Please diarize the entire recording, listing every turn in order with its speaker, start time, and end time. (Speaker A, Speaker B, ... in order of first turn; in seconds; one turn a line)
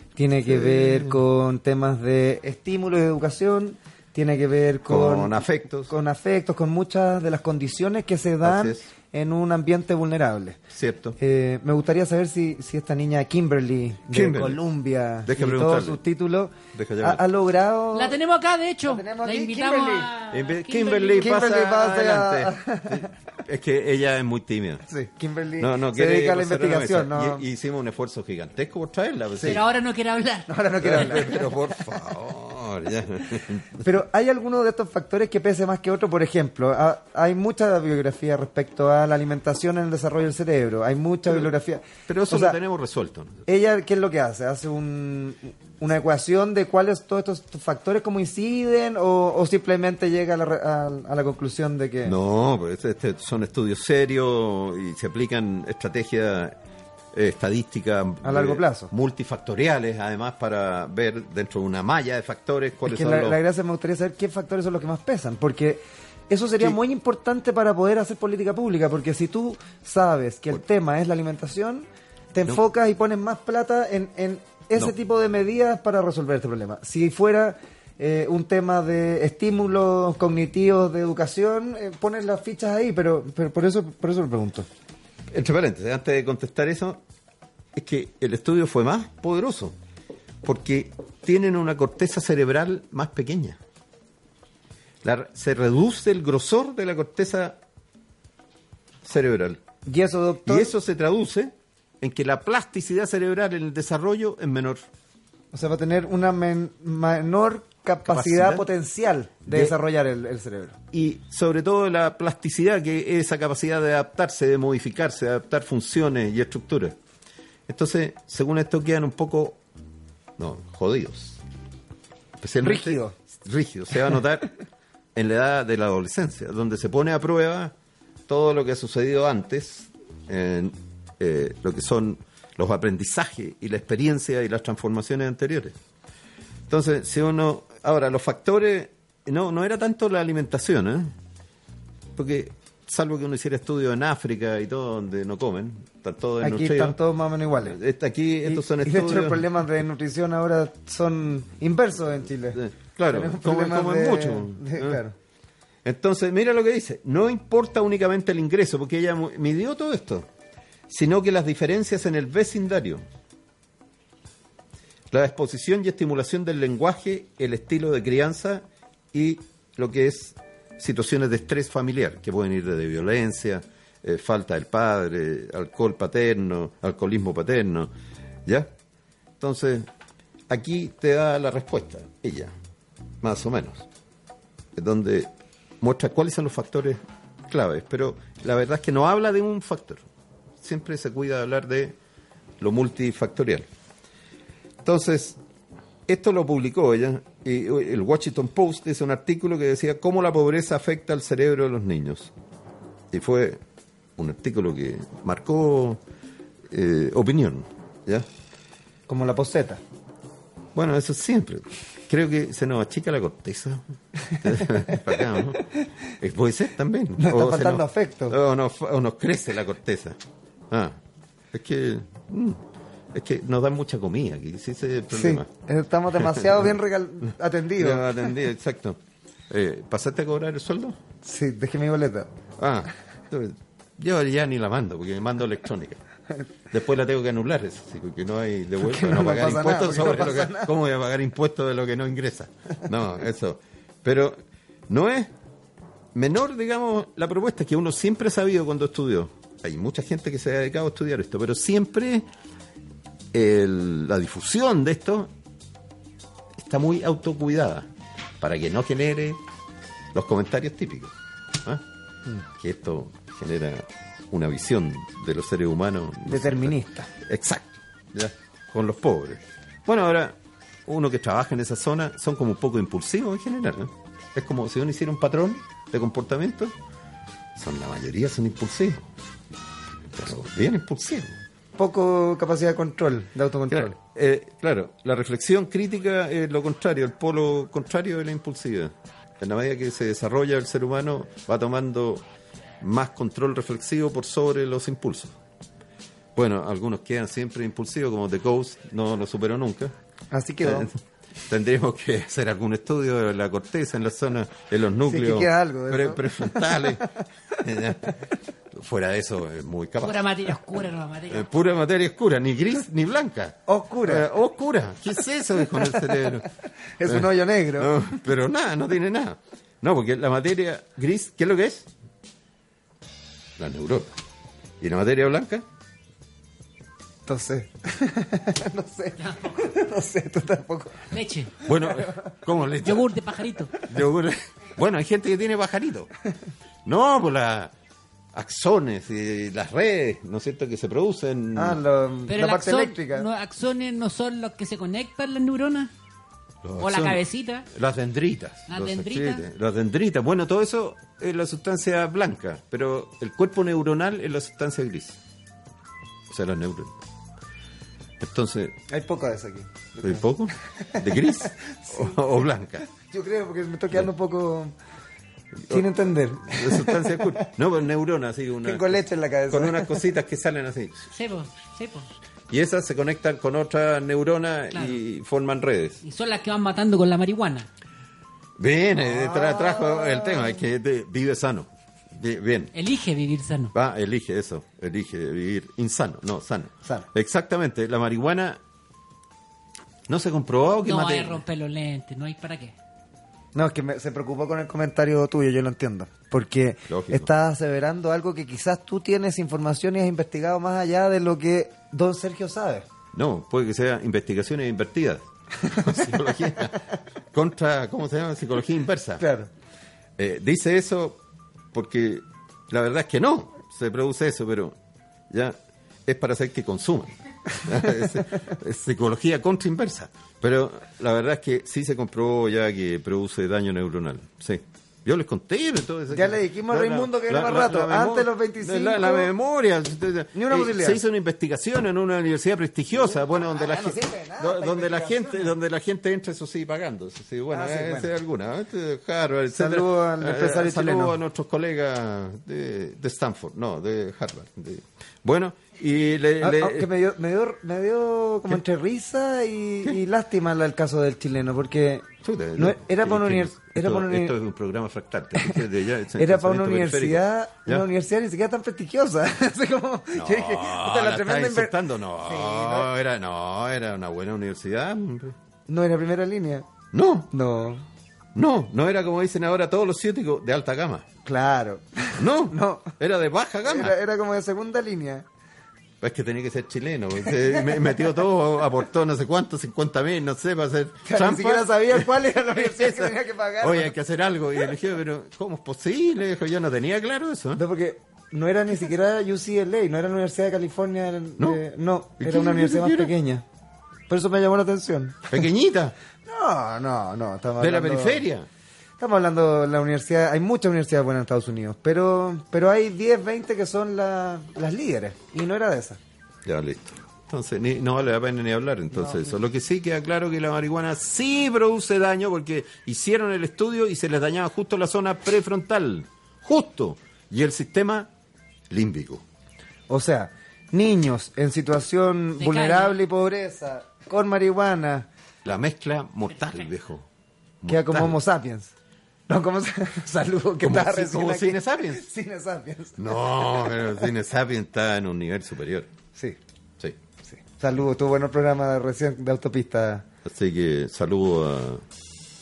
Speaker A: 0.1-5.4
Speaker B: 0.5-1.2
Speaker B: 4.9-5.9
Speaker A: 5.9-10.6
Speaker B: 8.4-8.9
Speaker B: 10.7-11.2
Speaker A: 11.2-18.1
Speaker B: 14.1-14.6
Speaker B: 15.2-16.0
Speaker B: 16.7-17.2
Speaker C: 17.9-21.3
Speaker A: 18.9-20.1
Speaker B: 20.3-24.8
Speaker A: 21.2-23.1
Speaker A: 24.9-27.4
Speaker B: 25.6-29.6
Speaker C: 29.4-31.0
Speaker A: 30.5-31.5
Speaker B: 30.8-33.9
Speaker A: 33.8-42.6
Speaker B: 42.1-43.4
Speaker A: 43.5-52.1
Speaker B: 52.0-56.6
Speaker B: 57.1-63.4
Speaker A: 58.2-58.9
Speaker A: 62.9-84.7
Speaker B: 85.3-87.0
Speaker B: 87.7-89.8
Speaker B: 90.4-93.6
Speaker B: 95.0-97.6
Speaker B: 99.0-99.6
Speaker A: 99.8-100.7
Speaker B: 100.5-104.8
Speaker A: 105.5-110.8
Speaker B: 108.1-108.7
Speaker B: 109.5-109.8
Speaker B: 110.9-117.0
Speaker B: 117.7-119.6
Speaker B: 120.4-121.4
Speaker B: 122.4-124.5
Speaker A: 122.6-123.1
Speaker B: 125.1-127.7
Speaker B: 128.3-135.8
Speaker B: 136.7-141.1
Speaker B: 142.2-147.0
Speaker A: 146.4-147.8
Speaker B: 147.6-149.4
Speaker A: 148.4-155.1
Speaker B: 152.5-155.0
Speaker B: 155.8-160.3
Speaker B: 160.9-163.0
Speaker B: 165.1-177.9
Speaker B: 178.4-178.7
Speaker B: 179.4-179.9
Speaker B: 180.5-182.5
Speaker B: 183.2-183.9
Speaker B: 184.7-190.0
Speaker B: 190.6-192.0
Speaker B: 192.6-193.7
Speaker B: 194.8-195.4
Speaker B: 196.1-202.3
Speaker B: 203.1-203.6
Speaker B: 204.2-206.0
Speaker B: 206.7-208.3
Speaker A: 209.1-209.8
Speaker B: 210.7-215.7
Speaker A: 214.5-215.0
Speaker B: 216.2-221.0
Speaker A: 217.2-218.3
Speaker B: 221.5-225.5
Speaker A: 225.1-228.3
Speaker B: 226.2-226.7
Speaker B: 227.8-231.0
Speaker A: 231.2-232.3
Speaker B: 232.6-236.0
Speaker B: 236.7-244.4
Speaker A: 238.8-240.7
Speaker B: 244.9-245.3
Speaker B: 246.1-252.3
Speaker B: 253.3-255.3
Speaker B: 256.6-257.9
Speaker B: 258.4-259.4
Speaker B: 260.1-261.8
Speaker B: 262.5-276.7
Speaker A: 266.2-267.1
Speaker B: 277.6-279.1
Speaker B: 280.1-281.3
Speaker A: 281.8-283.9
Speaker B: 283.7-292.2
Speaker B: 292.8-295.3
Speaker B: 296.3-299.9
Speaker A: 300.3-300.9
Speaker B: 300.6-307.1
Speaker A: 305.1-307.1
Speaker B: 307.6-308.2
Speaker B: 308.7-310.5
Speaker C: 310.0-311.5
Speaker B: 311.3-316.5
Speaker A: 313.7-314.3
Speaker A: 317.0-318.1
Speaker B: 317.0-321.9
Speaker B: 323.6-324.1
Speaker B: 324.8-325.6
Speaker A: 327.3-331.1
Speaker C: 329.2-329.7
Speaker C: 331.1-331.6
Speaker B: 331.6-333.1
Speaker A: 331.9-332.3
Speaker C: 332.8-333.8
Speaker B: 333.8-336.1
Speaker B: 336.8-337.7
Speaker B: 338.3-341.8
Speaker A: 341.6-343.3
Speaker C: 342.3-345.9
Speaker B: 346.6-355.2
Speaker C: 346.8-347.6
Speaker C: 348.7-349.4
Speaker B: 356.3-357.0
Speaker B: 358.2-358.8
Speaker A: 358.9-360.2
Speaker B: 360.0-362.8
Speaker A: 360.8-362.1
Speaker A: 362.9-364.7
Speaker B: 365.6-365.9
Speaker A: 365.7-367.5
Speaker B: 366.4-371.1
Speaker A: 368.6-370.0
Speaker C: 371.1-372.1
Speaker B: 372.5-376.0
Speaker C: 376.0-377.7
Speaker B: 378.6-382.7
Speaker A: 379.0-380.4
Speaker C: 382.7-383.7
Speaker B: 383.7-388.6
Speaker B: 390.1-391.4
Speaker C: 390.8-392.7
Speaker A: 393.5-402.9
Speaker B: 396.9-397.3
Speaker B: 403.1-409.2
Speaker A: 405.7-406.1
Speaker A: 409.2-409.5
Speaker B: 410.2-411.2
Speaker B: 411.7-414.8
Speaker B: 415.3-446.9
Speaker A: 426.1-429.3
Speaker A: 430.3-431.0
Speaker A: 433.0-435.5
Speaker A: 437.5-438.1
Speaker A: 439.5-441.2
Speaker A: 446.4-454.4
Speaker B: 452.2-457.9
Speaker A: 456.2-462.9
Speaker B: 460.1-465.4
Speaker A: 465.7-466.7
Speaker B: 466.9-467.3
Speaker A: 467.3-467.8
Speaker B: 468.3-471.1
Speaker A: 471.2-472.9
Speaker B: 472.2-473.9
Speaker A: 473.6-475.2
Speaker B: 476.0-487.6
Speaker A: 477.4-477.9
Speaker A: 481.0-483.9
Speaker A: 487.5-493.4
Speaker B: 492.2-493.1
Speaker A: 494.1-495.4
Speaker B: 495.3-495.9
Speaker A: 496.2-498.2
Speaker B: 497.6-498.5
Speaker A: 499.0-506.0
Speaker B: 506.4-518.1
Speaker A: 508.9-509.3
Speaker B: 518.7-519.2
Speaker A: 519.9-525.1
Speaker C: 522.4-522.9
Speaker B: 525.4-527.1
Speaker B: 527.6-528.2
Speaker A: 527.7-528.7
Speaker A: 529.3-534.0
Speaker B: 530.6-532.0
Speaker B: 533.0-535.9
Speaker A: 537.3-540.0
Speaker B: 540.2-541.8